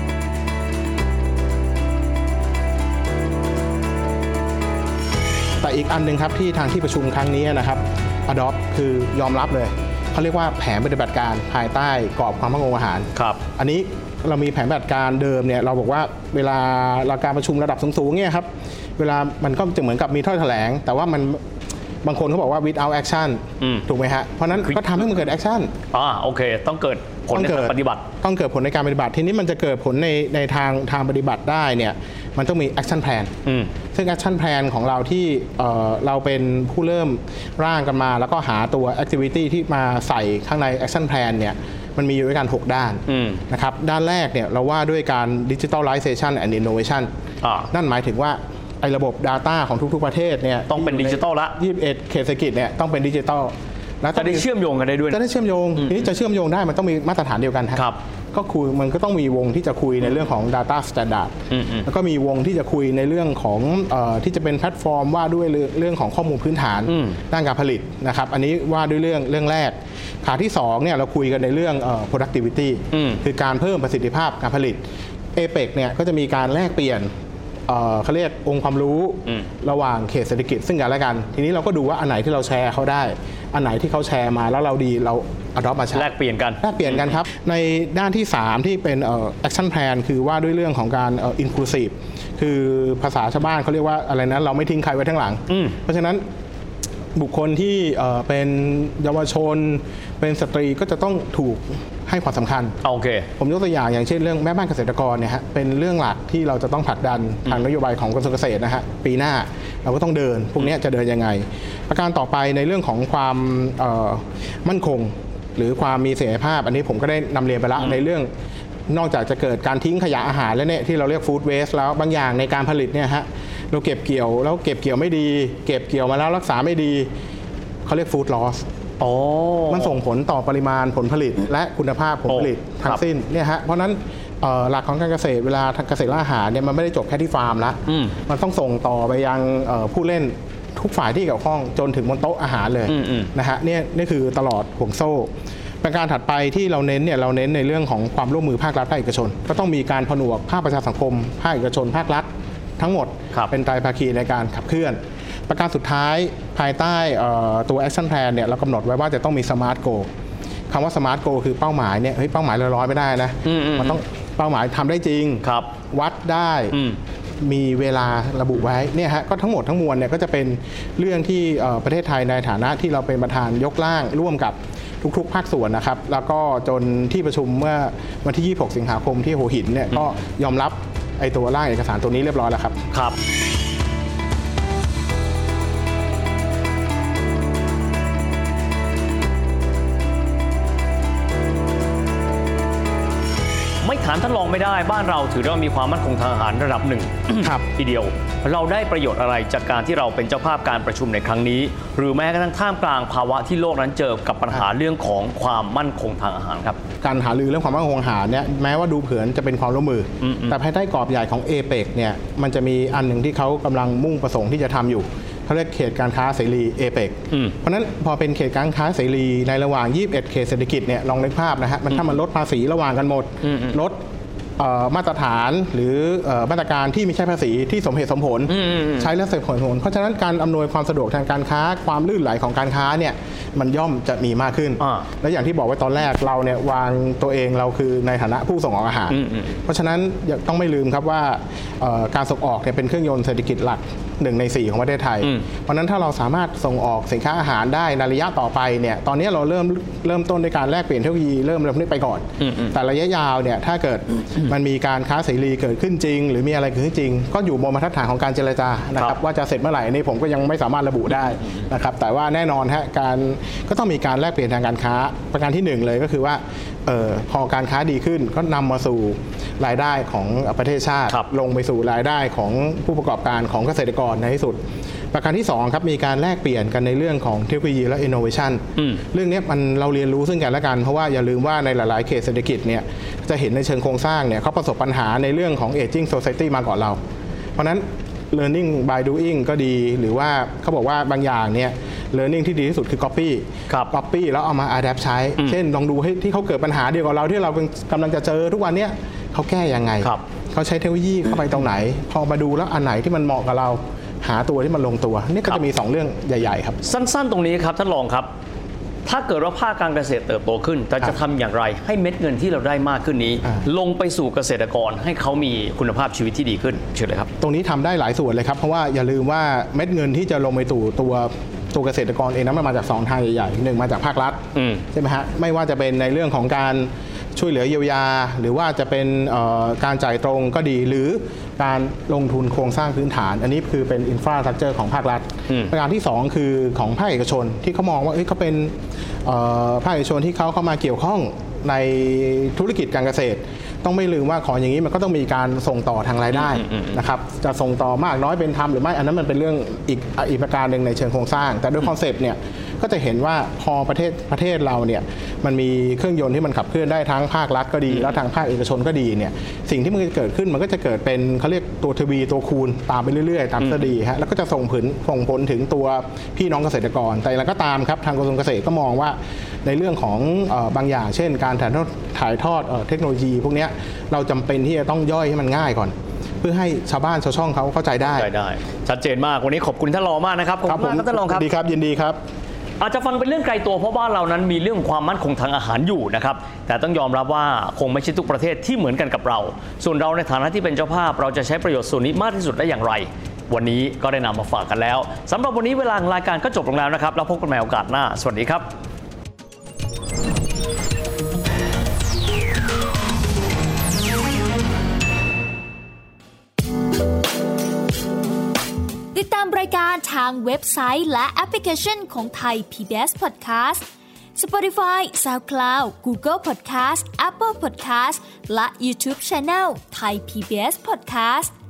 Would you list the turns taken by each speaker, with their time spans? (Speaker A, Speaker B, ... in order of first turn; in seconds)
Speaker A: 5.6-18.5, 19.0-21.4, 22.0-25.7, 27.3-33.3, 33.9-47.1, 47.7-54.5, 55.1-57.8, 58.3-61.3, 61.9-74.8, 75.3-77.1, 77.7-96.2, 97.2-102.8, 103.4-118.3, 118.9-127.1, 127.9-128.6, 129.7-145.3, 145.8-152.3, 152.8-160.1, 160.7-166.8, 167.4-182.8, 197.4-197.7, 207.0-224.0, 224.6-274.6, 275.1-287.0, 287.6-306.8, 317.4-324.4, 324.9-338.7, 339.2-378.3, 380.7-382.2
Speaker B: 13.2-13.4, 23.6-23.9, 24.6-25.0, 25.9-28.1, 33.5-33.7, 43.1-43.4, 47.4-47.7, 50.7-51.6, 54.1-55.2, 55.8-56.1, 61.5-61.9, 66.9-67.2, 72.9-73.2, 85.9-87.2, 95.5-95.8, 102.8-103.3, 129.0-129.9, 132.3-133.0, 137.9-138.2, 142.9-143.3, 163.4-164.0, 165.4-165.7, 166.7-167.0, 193.8-206.8, 210.2-210.6, 223.4-223.8, 228.5-229.2, 234.8-235.1, 239.1-239.5, 252.4-252.8, 306.8-308.3, 309.1-317.3, 324.6-324.9, 335.5-335.7, 346.4-347.0, 363.6-363.9, 378.0-381.5, 382.8-398.7
Speaker C: 409.1-421.5